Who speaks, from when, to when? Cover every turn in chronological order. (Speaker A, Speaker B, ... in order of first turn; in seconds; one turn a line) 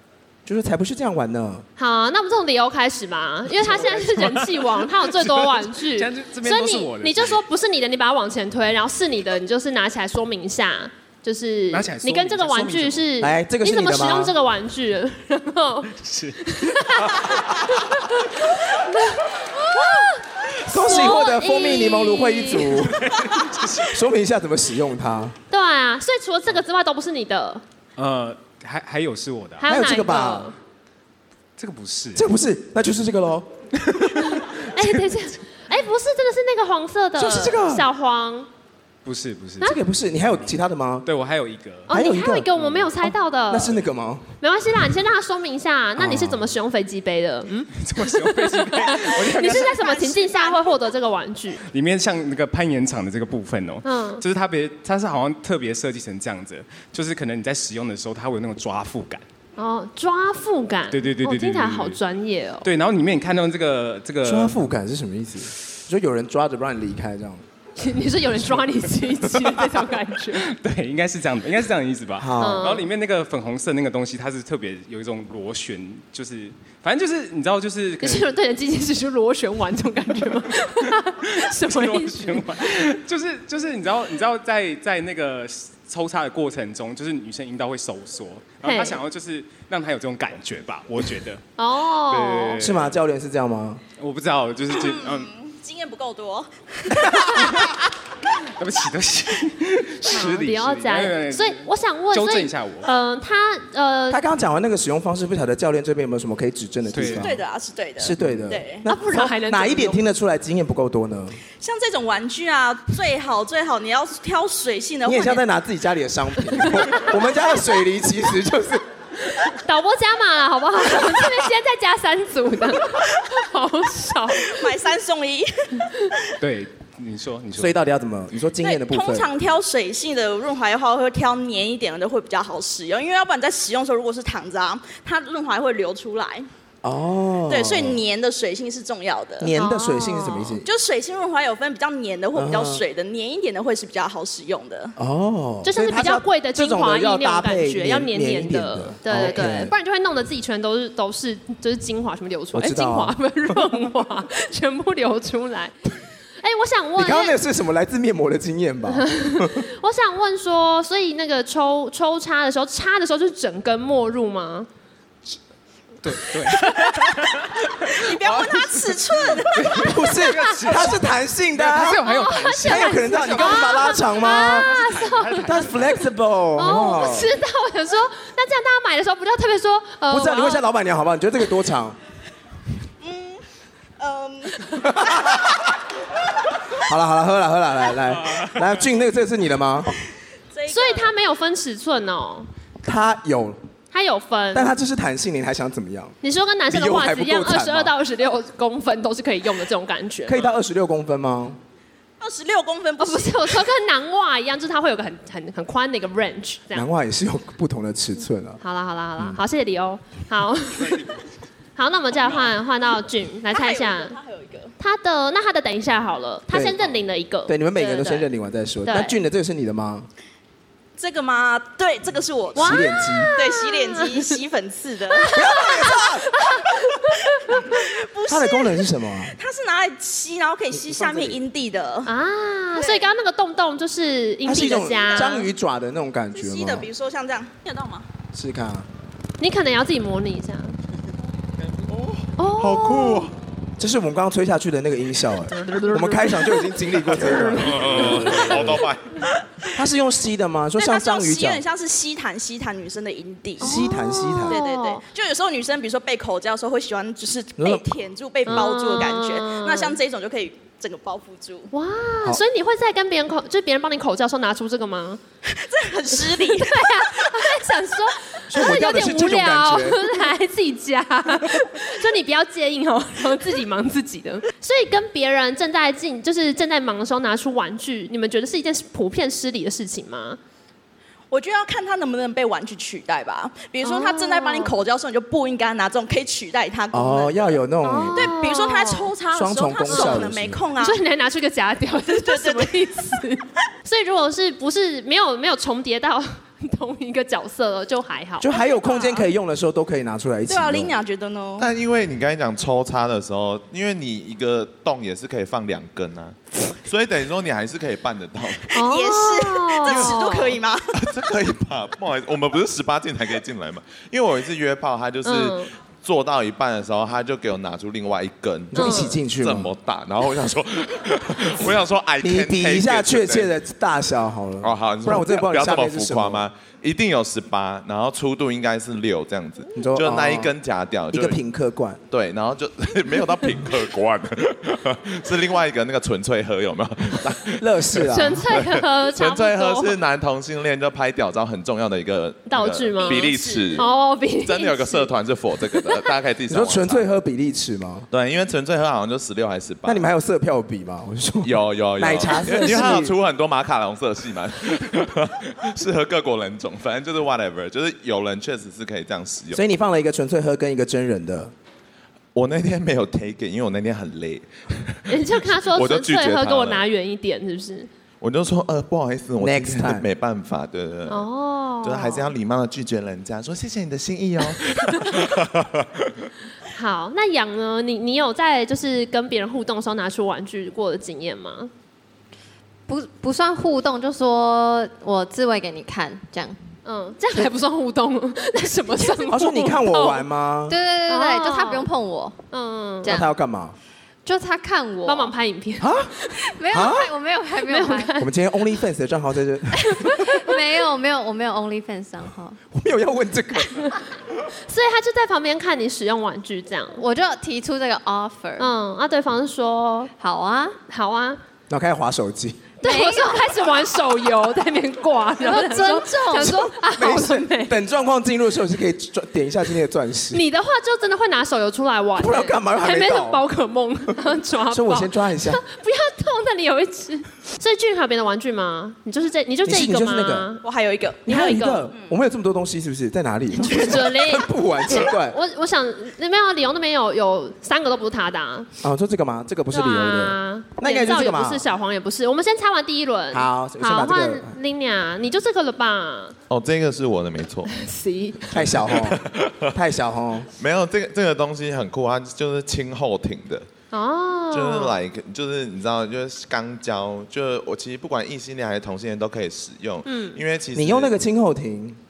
Speaker A: 0.5-1.6
Speaker B: 1.8-22.9
Speaker C: 3.6-7.4
Speaker C: 11.7-13.1
Speaker A: 13.2-14.4
Speaker C: 16.0-17.0
Speaker A: 20.6-23.2
Speaker C: 22.9-24.0
Speaker A: 23.8-25.4
Speaker B: 25.5-27.6
Speaker C: 28.0-29.7
Speaker B: 29.6-30.6
Speaker A: 29.7-30.5
Speaker C: 31.6-32.3
Speaker A: 32.1-34.9
Speaker B: 34.4-38.5
Speaker A: 37.2-37.9
Speaker C: 39.0-39.8
Speaker A: 39.6-41.1
Speaker C: 41.0-41.9
Speaker A: 41.9-42.5
Speaker B: 41.9-43.7
Speaker C: 42.6-42.9
Speaker A: 43.0-44.3
Speaker B: 44.4-51.6
Speaker A: 46.0-46.5
Speaker C: 47.8-49.7
Speaker D: 49.3-50.8
Speaker C: 51.7-59.2
Speaker B: 53.8-54.2
Speaker B: 59.6-62.7
Speaker C: 60.9-62.0
Speaker C: 62.6-64.6
Speaker A: 64.2-67.4
Speaker B: 67.8-70.5
Speaker C: 70.4-78.3
Speaker A: 72.2-72.8
Speaker B: 72.4-72.8
Speaker B: 78.0-82.5
Speaker C: 81.2-91.4
Speaker B: 88.6-89.0
Speaker B: 91.6-92.6
Speaker C: 92.1-93.0
Speaker A: 92.6-93.8
Speaker C: 94.0-95.3
Speaker D: 94.7-97.7
Speaker A: 97.0-97.3
Speaker C: 97.4-97.8
Speaker C: 98.6-102.9
Speaker B: 100.0-104.2
Speaker A: 104.1-107.4
Speaker C: 106.9-107.3
Speaker D: 107.0-108.8
Speaker A: 108.0-111.4
Speaker B: 108.9-110.0
Speaker D: 111.6-115.4
Speaker A: 115.0-118.8
Speaker B: 119.2-124.7
Speaker D: 124.4-125.5
Speaker C: 126.4-127.8
Speaker A: 127.5-129.3
Speaker D: 128.6-136.5
Speaker A: 136.8-138.0
Speaker D: 137.5-139.5
Speaker A: 139.4-140.7
Speaker B: 139.6-140.6
Speaker D: 140.6-144.9
Speaker A: 142.3-142.8
Speaker A: 145.0-149.7
Speaker B: 145.6-155.8
Speaker A: 152.5-153.8
Speaker B: 156.4-157.4
Speaker A: 157.0-159.7
Speaker B: 159.0-164.7
Speaker C: 166.0-176.0
Speaker D: 166.6-167.1
Speaker D: 167.8-169.9
Speaker A: 169.8-172.1
Speaker B: 172.0-175.7
Speaker A: 172.6-174.8
Speaker A: 175.4-177.3
Speaker B: 176.6-180.7
Speaker A: 180.1-182.0
Speaker D: 183.0-183.4
Speaker D: 184.0-185.3
Speaker A: 184.8-185.6
Speaker A: 186.8-190.0
Speaker D: 190.5-191.1
Speaker B: 190.7-192.5
Speaker A: 192.8-193.6
Speaker B: 193.9-194.7
Speaker A: 194.5-196.2
Speaker B: 196.2-200.5
Speaker A: 196.7-197.9
Speaker A: 200.3-201.6
Speaker D: 202.2-203.6
Speaker B: 203.0-206.9
Speaker A: 206.7-208.6
Speaker B: 208.6-211.2
Speaker B: 211.8-214.2
Speaker D: 213.5-214.7
Speaker B: 214.8-218.3
Speaker A: 216.5-216.8
Speaker A: 217.5-220.1
Speaker B: 218.8-219.2
Speaker D: 221.0-226.2
Speaker A: 222.6-223.3
Speaker B: 222.6-224.3
Speaker B: 225.1-227.8
Speaker A: 225.3-226.3
Speaker D: 227.5-232.1
Speaker A: 228.3-229.4
Speaker A: 230.7-231.4
Speaker B: 232.1-235.5
Speaker D: 232.8-233.1
Speaker A: 234.4-236.9
Speaker D: 234.8-235.4
Speaker D: 236.3-238.1
Speaker A: 238.3-238.9
Speaker B: 239.4-240.8
Speaker B: 242.4-243.3
Speaker E: 242.6-243.3
Speaker A: 243.8-248.7
Speaker E: 247.5-249.2
Speaker B: 248.1-248.6
Speaker A: 249.7-251.6
Speaker D: 250.8-253.8
Speaker A: 253.6-254.6
Speaker B: 253.6-255.0
Speaker D: 254.5-261.7
Speaker A: 257.6-257.9
Speaker B: 258.5-260.0
Speaker B: 261.7-265.2
Speaker D: 265.5-267.5
Speaker B: 266.1-280.4
Speaker A: 268.5-270.0
Speaker D: 281.3-287.6
Speaker B: 283.8-284.7
Speaker A: 286.9-288.4
Speaker B: 287.8-289.1
Speaker D: 288.1-291.0
Speaker A: 289.3-290.7
Speaker B: 289.9-290.3
Speaker B: 290.8-298.5
Speaker D: 292.1-292.9
Speaker A: 298.4-301.0
Speaker D: 298.5-299.3
Speaker D: 300.5-301.7
Speaker E: 301.6-308.7
Speaker B: 308.7-310.6
Speaker D: 308.8-310.9
Speaker E: 309.9-310.3
Speaker E: 310.9-323.5
Speaker B: 315.2-315.7
Speaker A: 318.7-319.7
Speaker B: 318.8-319.2
Speaker A: 322.2-326.4
Speaker E: 324.6-331.4
Speaker A: 329.8-330.5
Speaker A: 331.1-332.0
Speaker E: 332.1-343.9
Speaker A: 337.6-338.4
Speaker B: 338.1-340.0
Speaker B: 342.5-345.1
Speaker D: 343.0-343.9
Speaker E: 344.4-347.0
Speaker B: 345.7-346.1
Speaker A: 346.5-348.1
Speaker E: 348.1-350.0
Speaker A: 349.9-353.1
Speaker E: 351.4-359.6
Speaker B: 352.6-352.9
Speaker A: 359.5-361.5
Speaker E: 362.3-366.9
Speaker B: 365.1-367.9
Speaker E: 368.2-371.3
Speaker A: 369.4-370.1
Speaker B: 371.1-372.3
Speaker E: 371.8-376.1
Speaker B: 376.7-381.7
Speaker F: 382.9-386.6
Speaker B: 386.9-390.3
Speaker A: 389.2-390.8
Speaker F: 390.7-392.4
Speaker B: 391.1-391.9
Speaker B: 392.5-393.2
Speaker F: 393.0-393.3
Speaker A: 393.1-393.8
Speaker F: 394.2-395.3
Speaker B: 395.1-396.4
Speaker A: 395.8-396.1
Speaker F: 396.4-398.1
Speaker A: 396.7-397.1
Speaker B: 397.6-398.3
Speaker A: 398.2-400.0
Speaker B: 399.8-400.6
Speaker F: 400.3-402.6
Speaker A: 402.7-403.9
Speaker B: 404.7-407.0
Speaker F: 407.0-408.7
Speaker B: 408.6-410.1
Speaker F: 410.1-410.8
Speaker B: 410.9-411.4
Speaker A: 411.7-412.7
Speaker B: 412.8-417.8
Speaker F: 412.8-413.6
Speaker F: 415.4-416.8
Speaker A: 416.6-420.4
Speaker B: 420.3-430.6
Speaker A: 422.2-423.4
Speaker A: 424.7-425.6
Speaker A: 429.7-430.6
Speaker D: 430.6-431.4
Speaker A: 431.3-435.4
Speaker B: 431.3-431.9
Speaker B: 433.6-438.7
Speaker A: 438.8-441.6
Speaker B: 439.7-446.4
Speaker A: 443.3-444.6
Speaker E: 446.5-447.7
Speaker B: 447.7-448.6
Speaker A: 448.5-450.5
Speaker E: 448.6-449.7
Speaker E: 450.6-453.7
Speaker B: 453.9-455.0
Speaker E: 454.5-461.1
Speaker B: 460.1-460.4
Speaker A: 460.7-462.0